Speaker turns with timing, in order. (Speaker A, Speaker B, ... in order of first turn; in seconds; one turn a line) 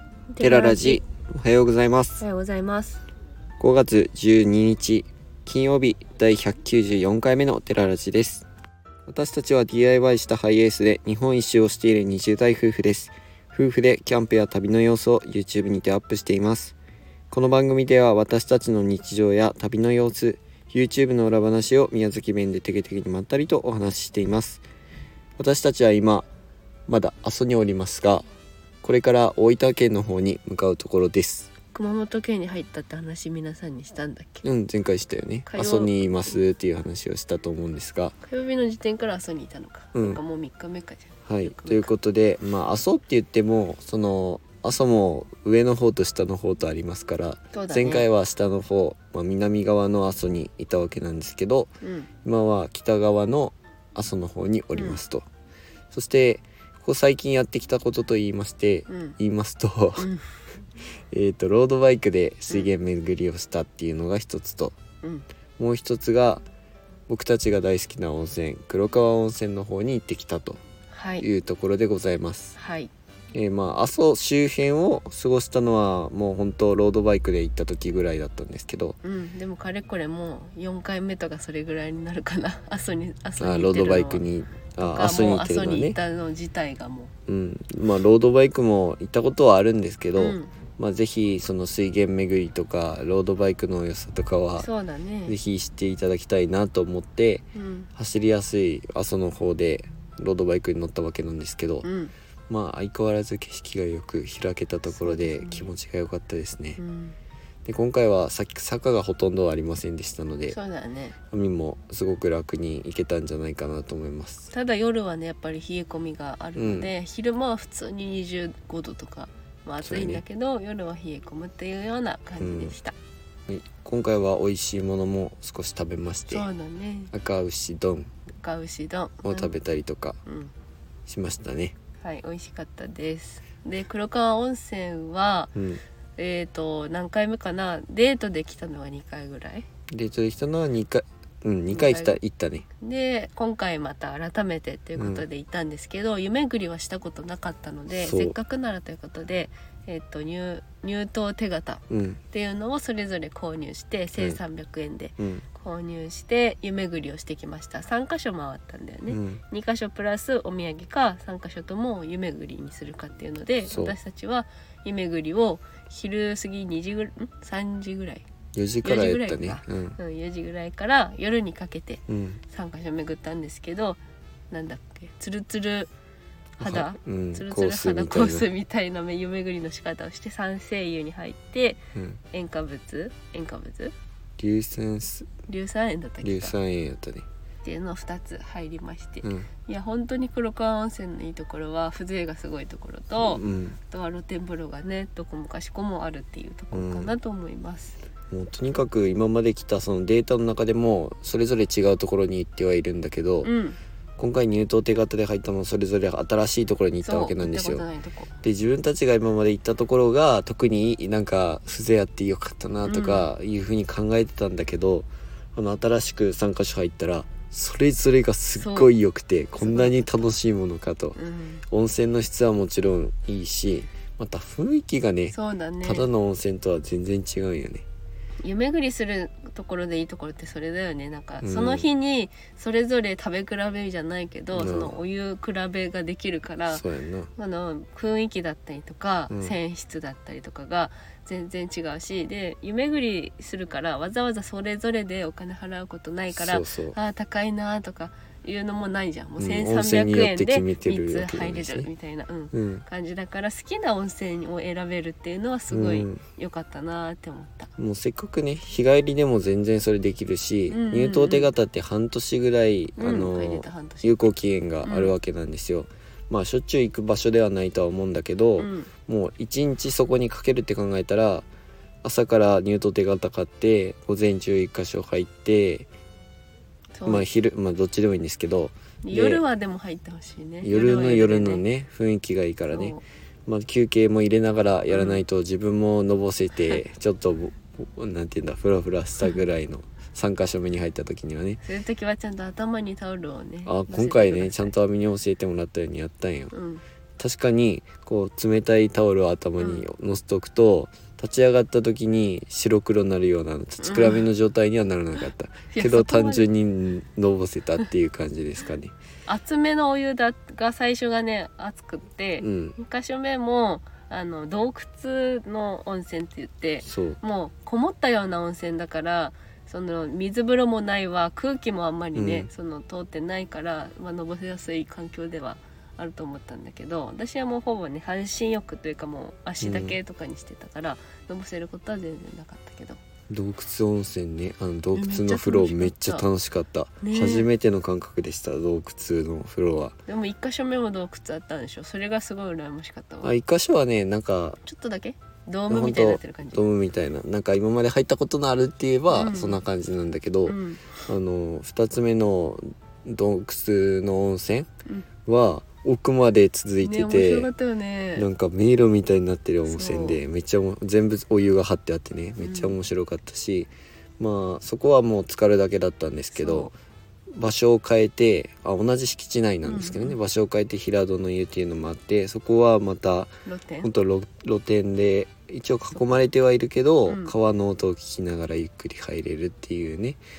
Speaker A: 0.3-1.0
Speaker B: 0.4-2.2
Speaker A: 2.2-3.0
Speaker B: 3.6-8.5
Speaker B: 9.1-16.8
Speaker B: 17.3-24.6
Speaker B: 25.4-26.3
Speaker B: 26.9-28.2
Speaker B: 28.8-31.5
Speaker A: 31.7-34.4
Speaker B: 34.4-38.1
Speaker A: 35.5-36.4
Speaker A: 38.2-41.9
Speaker B: 39.9-40.2
Speaker B: 41.2-51.7
Speaker A: 47.5-48.1
Speaker A: 51.8-52.1
Speaker B: 52.2-55.2
Speaker A: 54.7-55.0
Speaker B: 55.9-60.1
Speaker A: 58.9-59.1
Speaker A: 60.0-60.3
Speaker B: 61.1-64.8
Speaker B: 65.6-66.4
Speaker B: 67.1-70.6
Speaker A: 70.9-71.2
Speaker B: 71.2-72.5
Speaker A: 72.5-72.9
Speaker B: 73.3-79.0
Speaker A: 79.0-84.2
Speaker B: 83.4-86.0
Speaker A: 84.8-87.1
Speaker B: 87.3-94.7
Speaker A: 90.2-90.5
Speaker A: 94.6-95.3
Speaker B: 95.2-97.4
Speaker A: 97.5-97.9
Speaker B: 98.0-101.8
Speaker A: 101.8-102.1
Speaker B: 102.5-106.8
Speaker A: 104.9-105.7
Speaker A: 106.8-107.2
Speaker B: 107.6-110.6
Speaker A: 110.5-111.1
Speaker B: 111.3-114.5
Speaker A: 114.5-122.9
Speaker B: 116.5-116.9
Speaker B: 119.8-120.2
Speaker B: 122.4-122.7
Speaker B: 123.5-126.5
Speaker A: 126.3-127.1
Speaker B: 127.1-128.1
Speaker A: 128.3-129.6
Speaker B: 129.2-130.2
Speaker A: 130.2-130.5
Speaker B: 131.1-131.7
Speaker A: 132.0-135.5
Speaker B: 135.5-135.8
Speaker A: 136.2-139.7
Speaker B: 139.9-142.7
Speaker A: 141.7-142.2
Speaker A: 142.8-168.2
Speaker B: 145.0-145.2
Speaker B: 147.9-148.3
Speaker B: 151.9-152.2
Speaker B: 155.2-155.4
Speaker B: 159.1-159.4
Speaker B: 163.7-163.9
Speaker B: 168.5-170.0
Speaker A: 168.8-174.0
Speaker B: 172.1-172.4
Speaker A: 174.5-175.9
Speaker B: 176.6-178.5
Speaker A: 176.6-181.8
Speaker A: 182.3-183.9
Speaker B: 184.4-185.3
Speaker A: 185.5-186.5
Speaker B: 186.2-187.2
Speaker A: 187.6-198.0
Speaker B: 189.2-189.5
Speaker B: 193.2-193.8
Speaker B: 196.7-197.2
Speaker B: 198.3-203.5
Speaker A: 203.4-203.8
Speaker B: 204.2-207.8
Speaker A: 207.0-208.3
Speaker B: 208.4-221.2
Speaker A: 212.8-213.2
Speaker A: 218.5-218.9
Speaker A: 219.6-220.3
Speaker A: 221.2-221.6
Speaker B: 221.7-227.8
Speaker A: 225.3-226.1
Speaker A: 228.4-236.8
Speaker B: 231.4-231.9
Speaker B: 234.5-235.0
Speaker B: 236.7-237.3
Speaker A: 237.3-257.7
Speaker B: 239.3-239.6
Speaker B: 246.3-247.0
Speaker B: 249.4-251.9
Speaker B: 252.5-252.8
Speaker B: 255.7-256.2
Speaker B: 257.8-271.5
Speaker A: 260.7-261.5
Speaker A: 263.0-264.2
Speaker A: 264.8-265.1
Speaker A: 268.6-268.9
Speaker B: 272.0-275.9
Speaker A: 276.9-277.2
Speaker B: 277.1-279.4
Speaker A: 279.0-281.6
Speaker B: 280.6-291.6
Speaker A: 282.7-283.0
Speaker A: 284.9-285.2
Speaker A: 286.6-286.8
Speaker A: 291.6-294.7
Speaker B: 293.6-296.5
Speaker A: 296.5-296.8
Speaker B: 297.2-308.9
Speaker A: 299.6-299.9
Speaker A: 303.8-304.2
Speaker A: 305.7-306.5
Speaker A: 309.2-333.0
Speaker B: 312.4-312.8
Speaker B: 316.8-317.2
Speaker B: 322.1-322.5
Speaker B: 329.6-330.0
Speaker B: 333.3-340.0
Speaker A: 334.9-336.2
Speaker A: 337.0-337.5
Speaker A: 340.1-343.3
Speaker B: 343.2-344.6
Speaker A: 344.6-346.6
Speaker B: 345.7-354.7
Speaker A: 349.1-349.6
Speaker A: 350.5-351.0
Speaker B: 355.2-357.5
Speaker A: 356.8-358.2
Speaker B: 358.1-366.7
Speaker A: 359.7-360.2
Speaker A: 362.4-362.8
Speaker A: 366.3-366.7
Speaker B: 367.4-373.3
Speaker A: 369.6-370.2
Speaker A: 373.4-373.9
Speaker B: 373.8-380.2
Speaker A: 377.1-377.3